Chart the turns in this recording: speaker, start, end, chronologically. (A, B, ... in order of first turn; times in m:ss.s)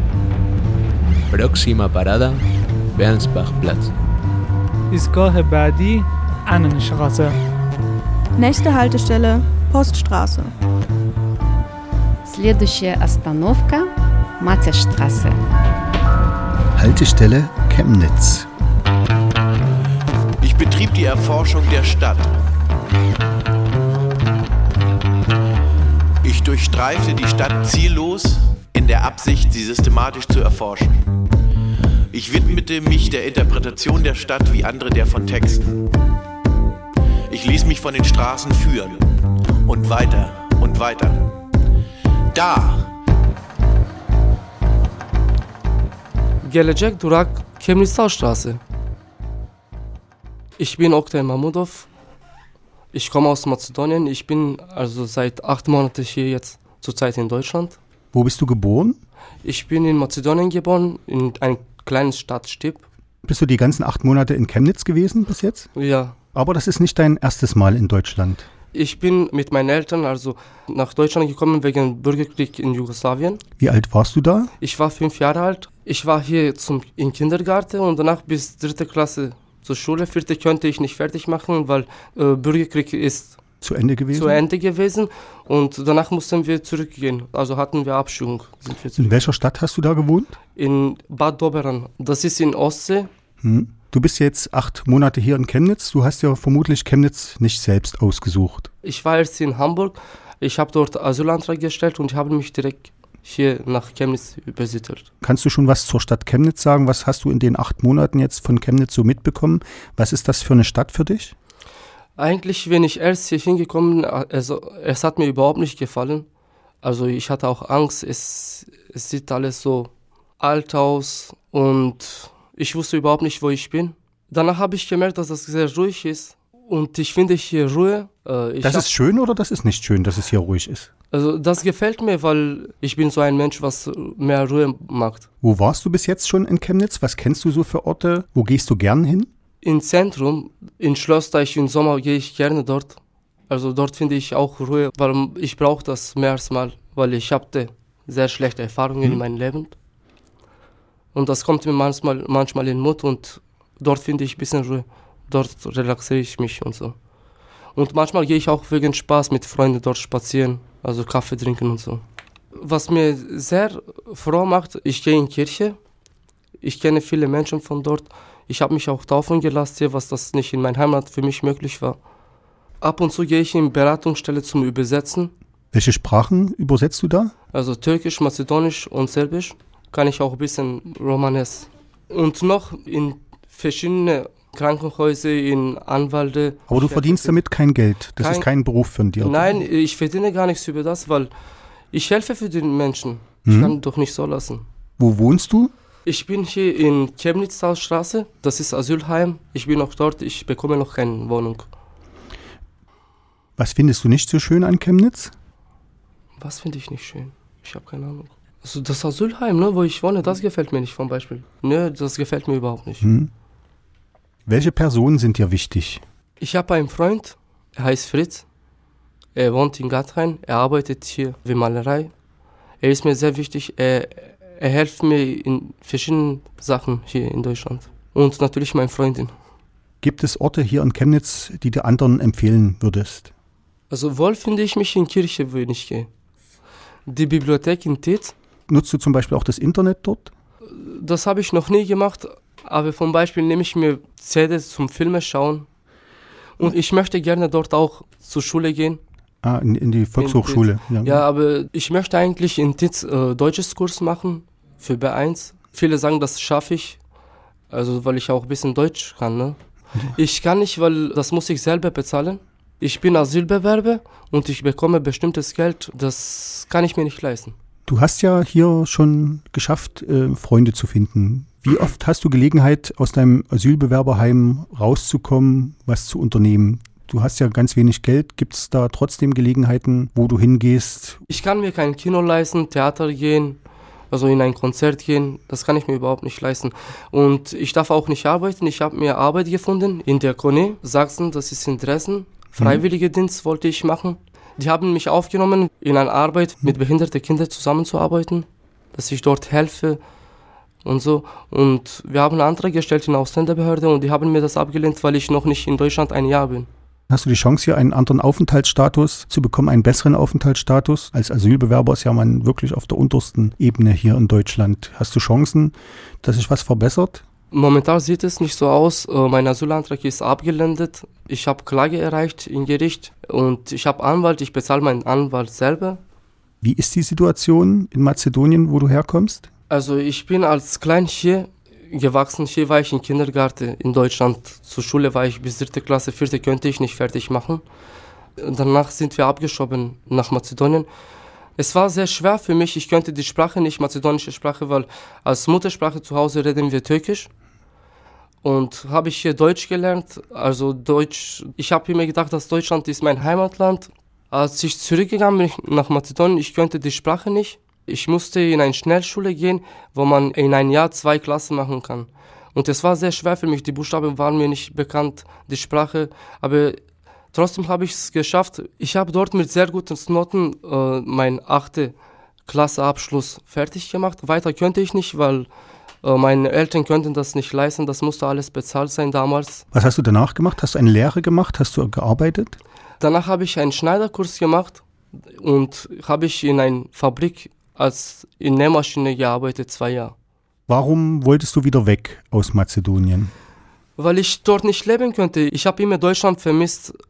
0:01.3-0:03.9 A
0:04.9-0:07.4 B
0:08.4-0:10.5 C
0:12.3-0:15.4 D
0:16.8-0:18.5 E
0:20.4-0:22.3 F
0:26.2-0:31.0 F
0:32.1-0:35.7 F
0:37.3-0:39.0 F
0:39.6-0:41.3 F
0:42.3-0:42.9 F
0:46.4-0:48.6 G
0:50.6-0:51.9 G
0:52.9-0:57.8 G
0:58.1-0:59.0 E
0:59.4-1:02.8 G
1:03.2-1:05.7 E
1:05.8-1:06.2 G
1:06.3-1:08.4 E
1:08.7-1:13.4 G
1:13.6-1:14.5 E
1:14.6-1:23.4 G
1:23.6-1:24.4 E
1:24.1-1:29.3 G
1:29.0-1:30.4 E
1:30.6-1:33.1 G
1:33.4-1:38.7 E
1:38.8-1:45.1 G
1:45.2-1:51.3 E
1:52.2-1:56.3 G
1:56.8-2:08.9 G
2:08.6-2:10.9 E
2:11.1-2:15.3 G
2:15.4-2:19.3 E
2:19.6-2:29.8 G
2:31.1-2:37.0 G
2:37.8-2:42.0 G
2:42.6-2:45.8 G
2:46.6-2:52.0 G
2:52.8-2:55.3 G
2:55.7-2:57.3 E
2:57.5-3:07.4 G
3:06.7-3:09.6 E
3:08.2-3:08.5 G
3:09.2-3:11.3 G
3:11.9-3:14.6 G
3:13.4-3:13.8 E
3:15.0-3:15.7 E
3:16.0-3:21.7 G
3:23.6-3:25.3 E
3:26.4-3:33.0 G
3:33.0-3:33.3 E
3:34.5-3:36.0 E
3:36.4-3:38.4 G
3:39.4-3:42.1 G
3:42.8-3:49.3 G
3:50.0-3:53.3 E
3:53.9-3:56.1 G
3:57.1-3:58.4 G
3:58.7-4:00.3 E
4:00.7-4:05.7 G
4:06.6-4:09.0 G
4:09.4-4:11.2 E
4:10.2-4:17.0 G
4:17.7-4:19.6 G
4:20.1-4:27.6 G
4:27.9-4:41.2 E
4:41.3-4:43.6 G
4:44.1-5:00.0 G
4:52.6-4:52.8 E
5:00.8-5:06.7 G
5:07.1-5:17.2 E
5:17.5-5:26.0 G
5:26.6-5:29.5 E
5:29.7-5:37.6 G
5:38.4-5:40.9 G
5:41.6-5:47.3 G
5:48.4-6:06.8 G
6:07.3-6:12.0 G
6:12.5-6:15.5 G
6:16.0-6:19.6 G
6:19.7-6:22.6 E
6:23.0-6:30.1 G
6:30.7-6:33.3 E
6:34.0-6:37.0 G